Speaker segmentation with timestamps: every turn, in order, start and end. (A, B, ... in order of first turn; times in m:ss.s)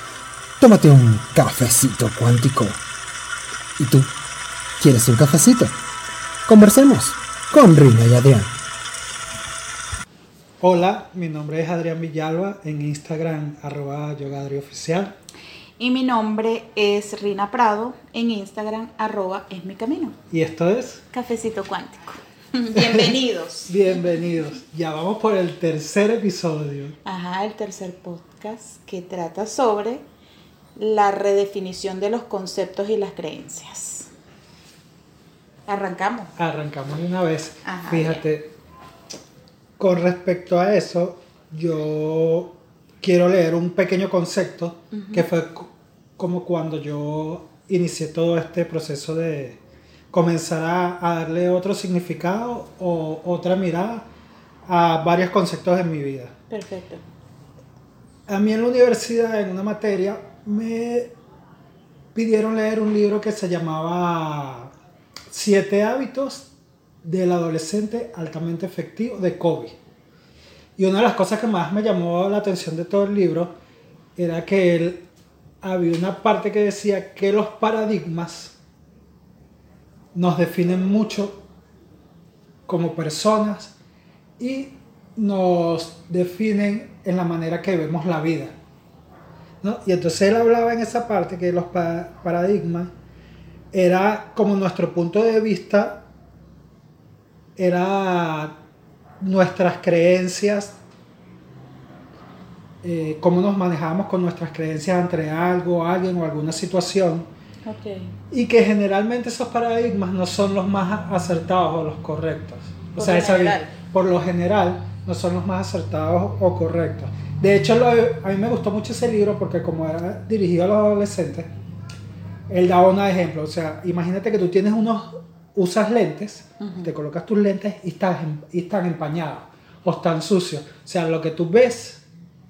0:00.6-0:02.8 A
0:03.8-0:04.1 A
0:04.8-0:05.7 A
0:06.4-0:08.5 A
0:10.6-0:15.1 B
0:15.8-0:20.2 C
0:20.3-0:21.0 B
0:21.1-0:24.0 C
0:22.7-0:27.0 B
0:27.0-0:30.0 C
0:30.8-0:34.1 C
0:35.7-0:36.3 C
0:36.4-0:38.5 B
0:37.6-0:38.2 C
0:39.8-0:49.6 B
0:44.9-0:45.2 C
0:50.1-0:54.0 B
0:54.6-0:56.3 B
0:56.5-0:57.0 C
0:58.3-1:01.1 B
1:02.1-1:04.7 B
1:05.3-1:06.5 B
1:07.0-1:09.8 B
1:10.8-1:13.5 B
1:14.2-1:15.0 B
1:15.6-1:18.6 B
1:20.1-1:21.4 B
1:22.7-1:23.7 B
1:24.4-1:28.6 B
1:29.6-1:32.9 B
1:33.7-1:36.0 B
1:37.6-1:38.5 B
1:39.2-1:40.8 B
1:42.8-1:47.3 B
1:47.6-1:48.2 C
1:48.3-2:01.5 B
1:52.9-1:53.7 C
2:02.5-2:12.0 B
2:06.6-2:06.9 C